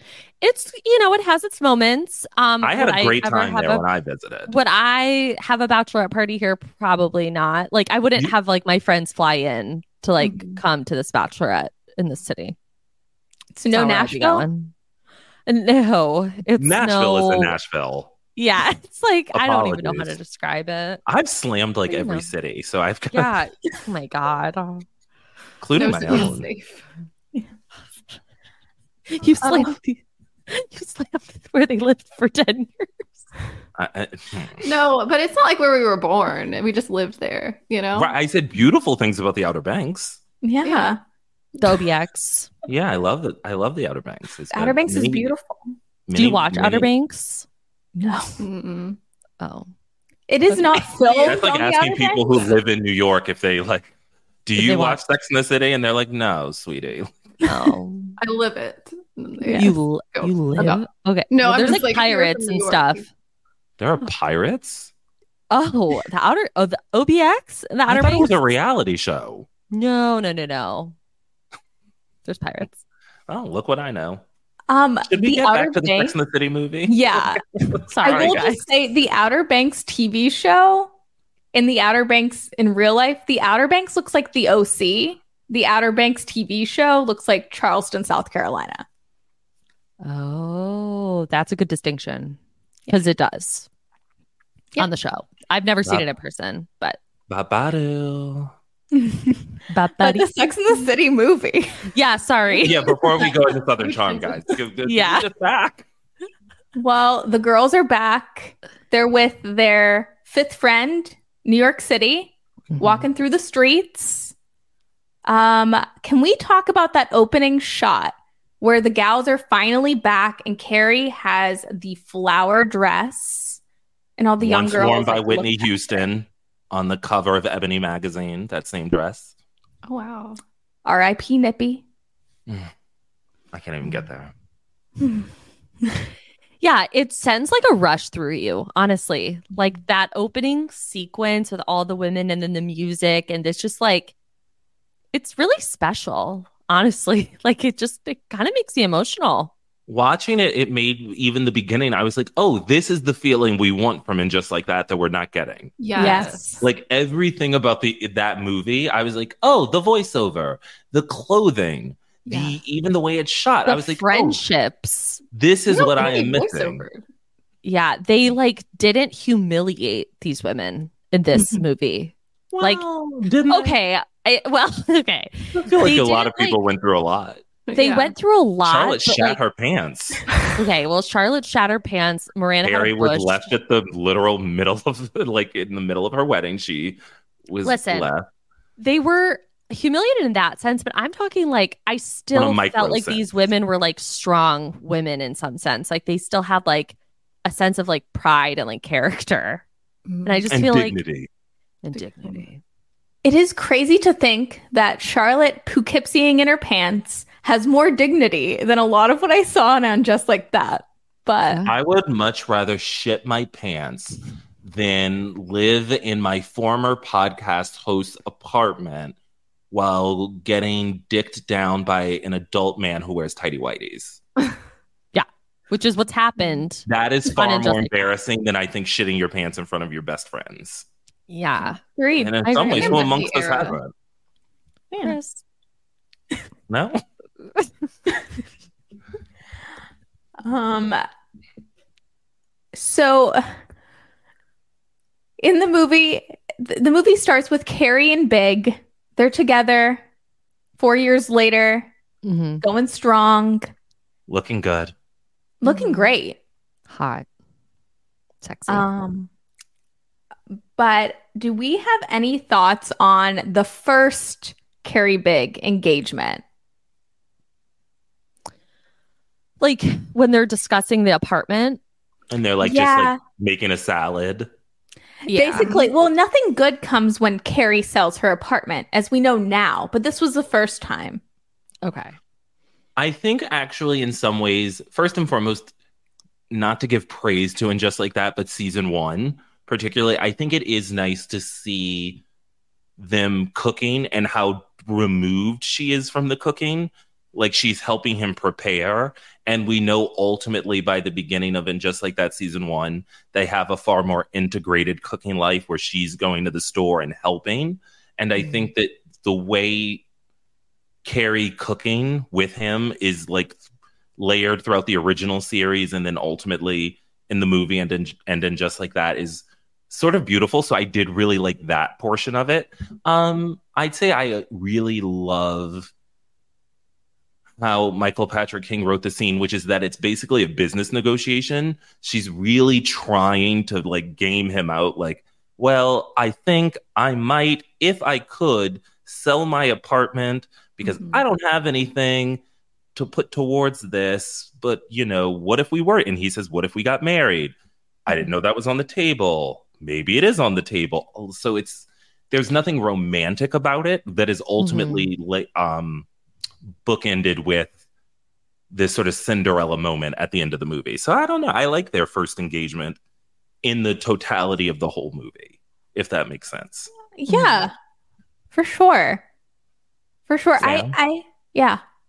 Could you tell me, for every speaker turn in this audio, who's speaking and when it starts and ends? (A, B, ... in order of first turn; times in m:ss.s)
0:00.4-0:03.8 A
0:02.6-0:04.5 B
0:04.5-0:12.6 A
0:10.2-0:10.6 C
0:13.6-0:14.5 D
0:13.7-0:14.7 A
0:15.5-0:17.6 A
0:16.6-0:18.1 B
0:18.4-0:21.0 A
0:19.3-0:20.2 B
0:21.1-0:23.4 B
0:21.9-0:22.3 A
0:23.1-0:24.8 A
0:25.6-0:26.5 B
0:25.8-0:26.8 C
0:29.1-0:33.1 A
0:33.8-0:34.7 B
0:34.6-0:38.1 C
0:37.9-0:40.2 B
0:40.4-0:41.0 D
0:40.6-0:41.0 C
0:41.6-0:42.5 A
0:42.7-0:45.3 B
0:44.5-0:45.7 D
0:46.1-0:46.9 B
0:46.1-0:47.5 A
0:48.0-0:48.4 D
0:48.4-0:49.0 C
0:49.4-0:49.7 A
0:50.3-0:52.5 D
0:50.5-0:50.8 A
0:51.2-0:53.9 B
0:54.5-0:57.2 B
0:54.6-0:55.0 A
0:57.4-0:58.2 A
0:58.2-1:03.0 C
0:59.4-0:59.7 D
0:59.5-1:03.1 A
1:03.8-1:04.9 B
1:05.5-1:08.3 A
1:07.9-1:09.5 B
1:09.7-1:11.0 A
1:12.3-1:12.8 A
1:13.3-1:14.2 B
1:14.7-1:16.2 D
1:15.1-1:18.4 B
1:16.9-1:17.4 D
1:17.9-1:18.6 A
1:18.0-1:20.9 D
1:21.5-1:28.8 D
1:30.0-1:33.7 A
1:34.8-1:37.0 A
1:37.3-1:38.5 B
1:38.9-1:39.5 D
1:39.7-1:40.3 A
1:40.0-1:41.9 D
1:41.9-1:42.8 A
1:42.6-1:45.9 B
1:44.8-1:45.3 A
1:46.8-1:54.3 D
1:52.7-1:53.0 A
1:55.2-2:03.6 D
2:04.2-2:06.0 D
2:04.4-2:09.3 B
2:09.8-2:10.4 C
2:10.8-2:11.8 D
2:13.5-2:14.3 B
2:16.6-2:24.1 A
2:25.1-2:29.5 A
2:29.9-2:44.4 B
2:35.8-2:36.4 C
2:36.0-2:36.6 D
2:36.0-2:36.4 A
2:42.3-2:42.6 C
2:43.6-2:45.2 A
2:45.3-2:46.8 B
2:45.7-2:47.0 C
2:47.6-2:52.8 A
2:52.5-2:53.8 B
2:53.5-2:56.6 A
2:55.5-2:57.4 B
2:57.7-2:58.1 C
2:57.7-2:59.4 A
2:58.7-3:00.2 B
3:00.6-3:03.5 A
3:02.6-3:08.3 B
3:07.6-3:08.1 A
3:08.8-3:19.6 A
3:12.3-3:13.3 B
3:20.1-3:20.4 C
3:20.2-3:21.0 A
3:20.5-3:21.3 B
3:21.8-3:22.6 A
3:22.0-3:22.4 C
3:23.2-3:31.6 D
3:31.6-3:39.2 B
3:39.7-3:44.2 B
3:45.1-3:48.1 A
3:46.9-3:50.8 B
3:51.3-3:51.8 A
3:52.0-3:53.6 D
3:52.2-3:53.9 B
3:52.4-3:53.1 A
3:52.8-3:53.7 C
3:54.9-3:55.2 D
3:55.0-3:55.4 A
3:56.7-3:57.0 B
4:00.4-4:01.0 D
4:02.7-4:03.4 D
4:05.4-4:10.0 D
4:10.8-4:11.9 D
4:12.2-4:12.6 A
4:12.6-4:13.7 D
4:14.3-4:14.9 B
4:15.6-4:16.4 D
4:15.6-4:16.1 A
4:16.9-4:17.3 A
4:18.4-4:18.9 A
4:18.7-4:19.3 D
4:20.8-4:26.4 D
4:29.6-4:31.8 A
4:32.3-4:34.5 B
4:32.6-4:33.2 D
4:35.3-4:35.9 A
4:35.3-4:41.2 D
4:35.6-4:35.9 C
4:41.8-4:42.2 A
4:43.0-4:45.7 B
4:46.5-4:52.2 B
4:53.0-5:10.0 B
5:08.4-5:08.7 A
5:11.0-5:13.6 B
5:14.2-5:25.9 B
5:27.6-5:42.4 B
5:40.8-5:41.2 C
5:43.0-5:47.6 B
5:48.1-5:56.1 B
5:54.6-5:55.1 A
5:56.8-5:57.7 B
5:58.7-6:03.0 B
6:03.6-6:06.9 B
6:07.2-6:07.7 D
6:07.3-6:07.7 A
6:08.5-6:09.2 D
6:10.3-6:11.8 D
6:10.6-6:11.0 B